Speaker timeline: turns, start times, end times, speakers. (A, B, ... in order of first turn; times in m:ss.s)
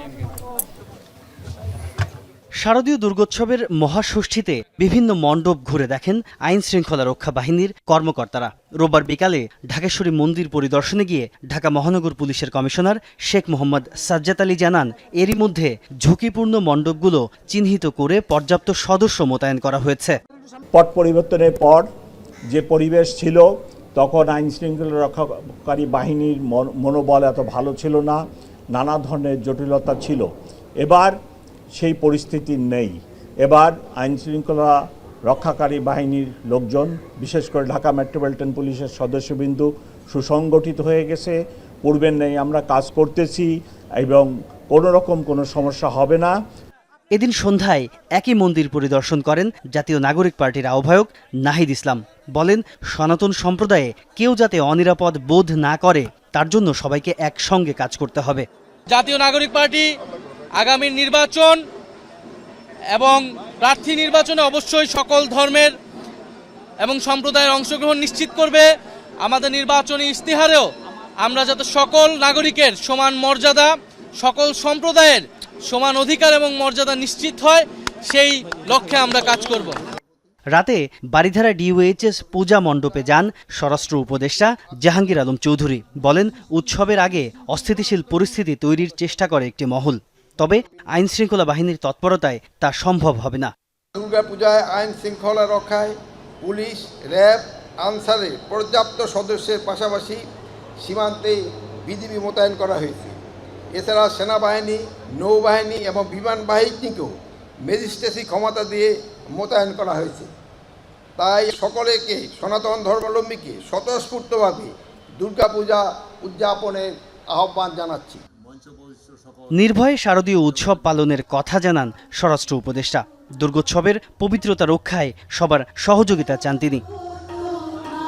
0:02.6-0:20.2 A
0:20.7-0:21.8 B
0:22.5-0:28.2 B
0:28.7-0:30.2 B
0:30.8-0:31.1 B
0:31.8-0:46.3 B
0:47.1-0:58.4 A
0:58.9-0:59.9 C
1:00.6-1:01.6 C
1:02.9-1:05.7 C
1:06.8-1:08.7 C
1:09.2-1:10.7 C
1:11.2-1:19.8 C
1:20.5-1:33.5 A
1:33.9-1:40.2 D
1:40.8-1:43.2 D
1:43.7-1:47.1 D
1:47.6-1:50.3 D
1:51.2-1:58.2 D
1:59.5-2:06.8 A